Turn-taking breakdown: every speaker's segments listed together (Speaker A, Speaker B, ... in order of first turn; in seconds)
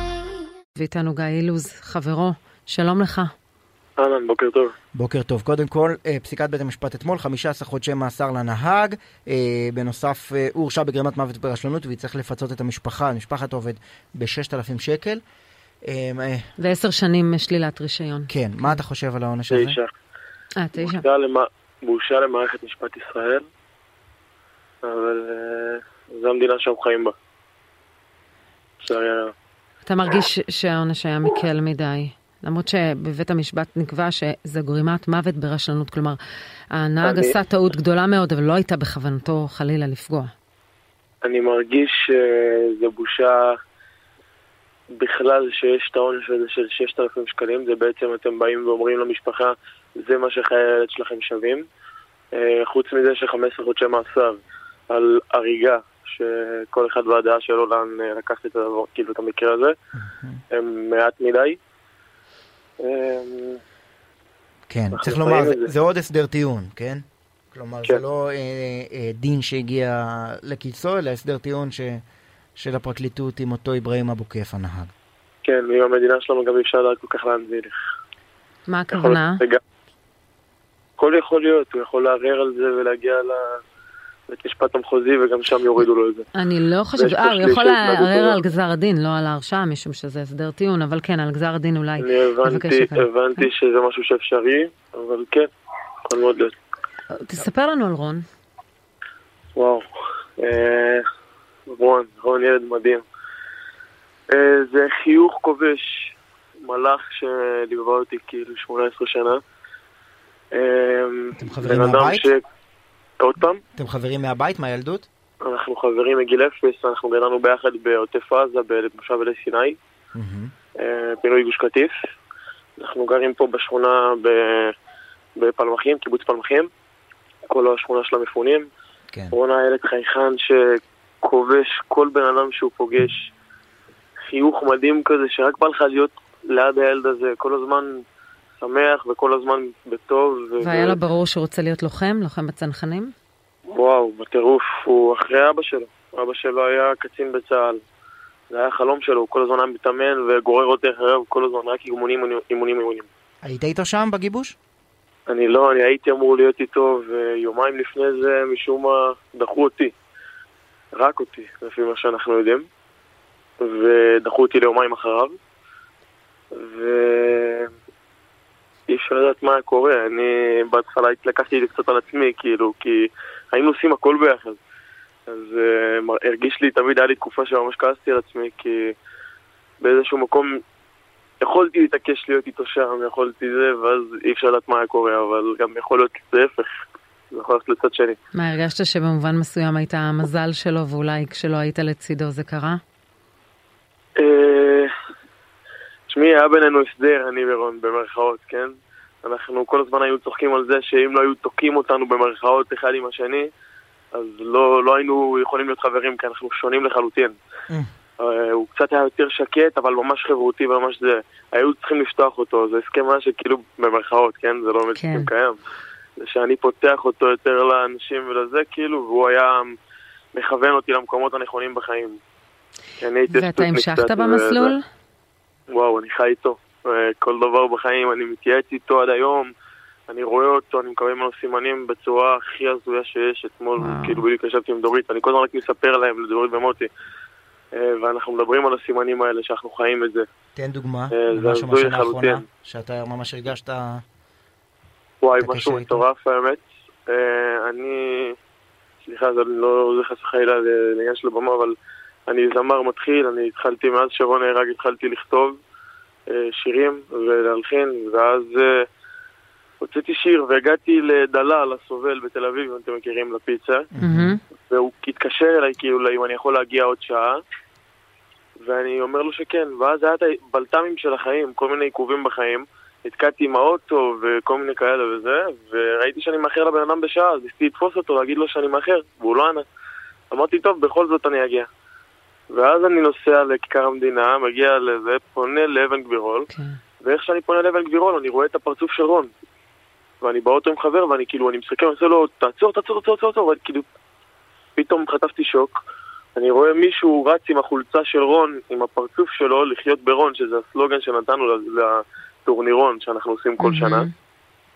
Speaker A: 0.8-3.3, 16.6-18.8, 20.6-21.0, 29.9-36.2, 36.7-40.3, 78.7-79.4, 86.3-93.5, 97.2-98.2, 140.6-143.1, 188.3-192.8, 214.9-215.3, 223.3-224.8, 233.8-234.2, 264.0-264.4, 286.5-286.8, 303.6-304.1
Speaker B: 4.0-4.7, 19.5-19.9, 20.8-23.4, 24.8-27.1, 28.8-29.3, 37.0-37.4, 41.2-43.5, 44.9-51.7, 52.3-59.8, 60.5-61.6, 62.8-63.6, 64.9-65.7, 75.4-77.8, 78.9-79.6, 81.0-83.6, 84.3-86.3, 87.0-88.4, 92.0-95.5, 96.0-96.5, 99.5-99.9, 100.4-101.0, 101.7-103.0, 104.3-109.4, 110.5-112.4, 113.2-113.6, 115.4-119.8, 120.8-121.9, 122.8-124.8, 125.4-126.7, 127.5-128.7, 129.3-133.3, 134.3-138.0, 138.6-141.0, 143.7-147.8, 148.5-153.1, 155.3-159.9, 160.9-162.7, 163.6-165.4, 166.5-167.7, 168.9-174.6, 175.3-179.0, 179.8-180.6, 181.4-188.2, 194.2-194.9, 196.1-198.7, 199.2-203.5, 204.1-207.4, 208.2-215.6, 216.2-219.8, 220.3-222.2, 223.0-224.7, 225.7-229.5, 230.1-236.9, 237.7-240.3, 241.1-242.4, 245.2-248.4, 249.0-251.8, 252.3-255.6, 256.3-258.9, 259.8-263.9, 264.7-267.4, 268.6-279.7, 280.3-281.7, 282.5-286.5, 287.0-289.3, 290.2-293.9, 294.8-295.8, 296.4-304.1
Speaker C: 5.0-15.2, 15.8-16.5, 18.3-19.8, 60.0-60.4, 64.7-72.0, 72.6-74.9, 111.4-112.3, 113.8-115.1, 120.1-120.5, 153.4-154.6, 240.6-244.0, 245.4-246.1, 263.9-264.4